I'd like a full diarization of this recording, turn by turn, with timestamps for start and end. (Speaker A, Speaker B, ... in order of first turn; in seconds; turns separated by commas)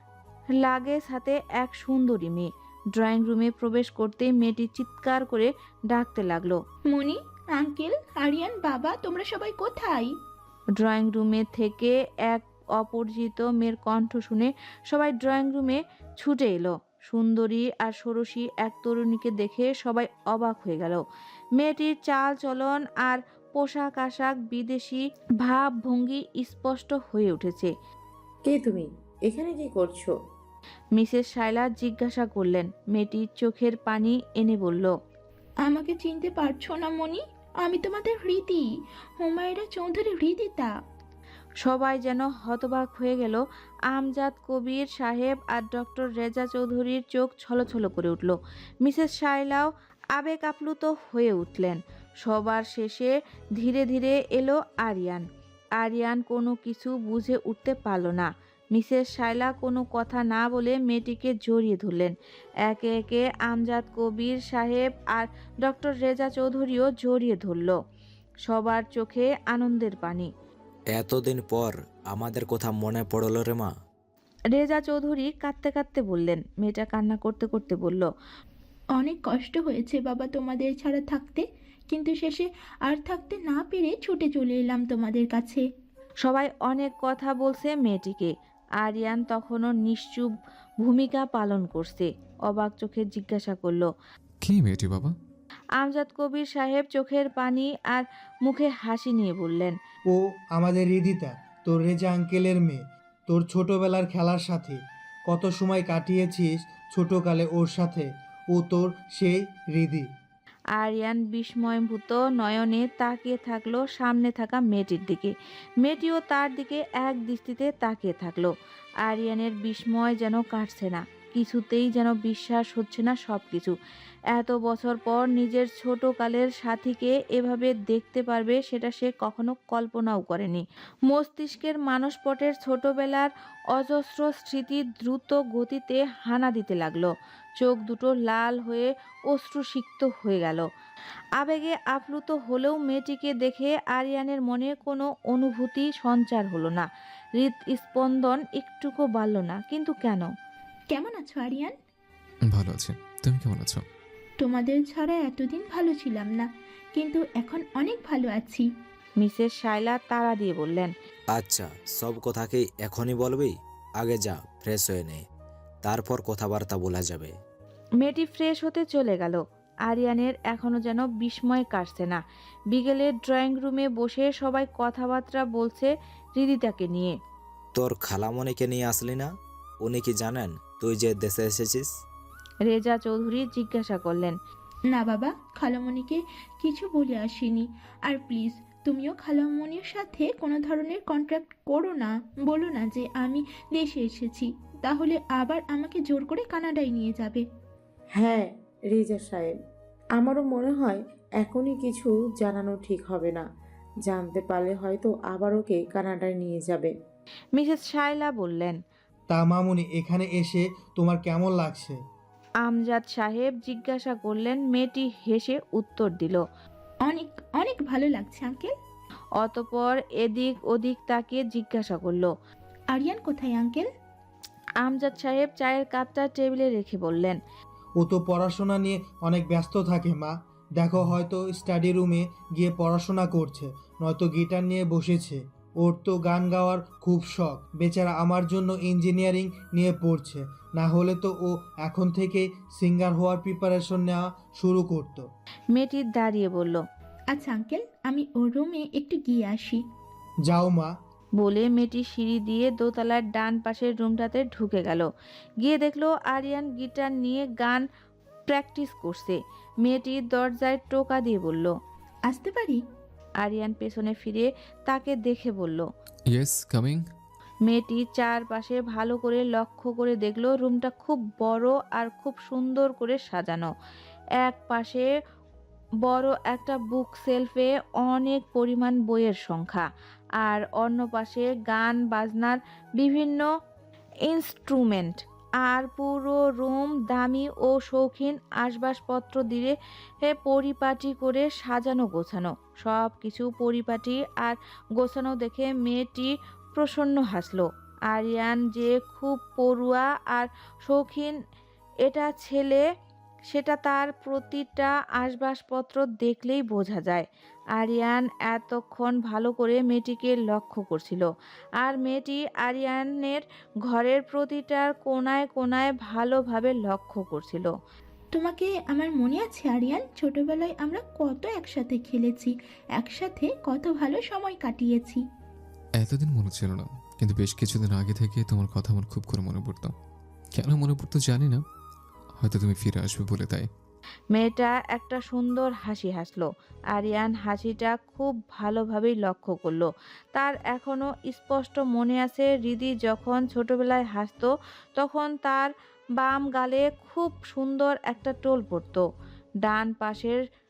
Speaker A: 0.6-6.6, Speaker B: 6.9-10.1, Speaker A: 10.8-21.0, Speaker A: 21.6-27.7, Speaker C: 28.5-30.1, Speaker A: 31.0-34.9, Speaker B: 35.6-38.6, Speaker B: 39.2-40.7, Speaker A: 41.6-55.3, Speaker A: 55.8-62.1, Speaker A: 62.7-67.7, Speaker A: 68.5-70.3, Speaker D: 70.9-73.7, Speaker A: 74.5-78.1, Speaker B: 79.0-85.6, Speaker A: 86.2-93.9, Speaker E: 94.4-95.2, Speaker A: 95.8-99.7, Speaker F: 100.1-110.1, Speaker A: 110.8-118.5, Speaker A: 119.0-123.8, Speaker A: 124.3-140.7, Speaker A: 141.4-146.9, Speaker A: 147.4-150.3, Speaker B: 150.9-151.7, Speaker E: 152.5-153.8, Speaker B: 154.4-158.7, Speaker A: 159.2-160.9, Speaker D: 161.3-165.2, Speaker D: 165.8-167.3, Speaker A: 168.0-172.2, Speaker A: 172.7-177.1, Speaker D: 177.8-179.3, Speaker D: 179.8-181.9, Speaker A: 182.7-184.4, Speaker B: 184.9-197.4, Speaker C: 198.2-199.5, Speaker C: 200.2-203.5, Speaker C: 204.1-206.9, Speaker A: 207.6-208.8, Speaker F: 209.3-212.0, Speaker A: 212.6-216.4, Speaker B: 217.1-218.7, Speaker A: 219.4-222.3, Speaker B: 222.9-223.9, Speaker A: 224.8-227.4, Speaker F: 228.0-245.3, Speaker A: 245.7-246.8, Speaker B: 247.3-249.8, Speaker F: 250.5-250.9, Speaker A: 251.4-255.1, Speaker A: 255.6-257.8, Speaker A: 258.5-261.7, Speaker B: 262.3-262.8, Speaker A: 263.4-265.9, Speaker E: 266.3-267.0, Speaker A: 267.7-273.7, Speaker A: 274.4-275.1, Speaker A: 276.0-279.9, Speaker A: 280.4-283.5, Speaker A: 284.3-301.4, Speaker A: 302.1-302.8, Speaker A: 303.5-311.3, Speaker A: 311.8-317.7, Speaker B: 318.4-325.2, Speaker E: 326.0-329.9, Speaker E: 330.5-331.6, Speaker E: 332.4-333.7, Speaker A: 334.3-349.0, Speaker A: 349.6-350.4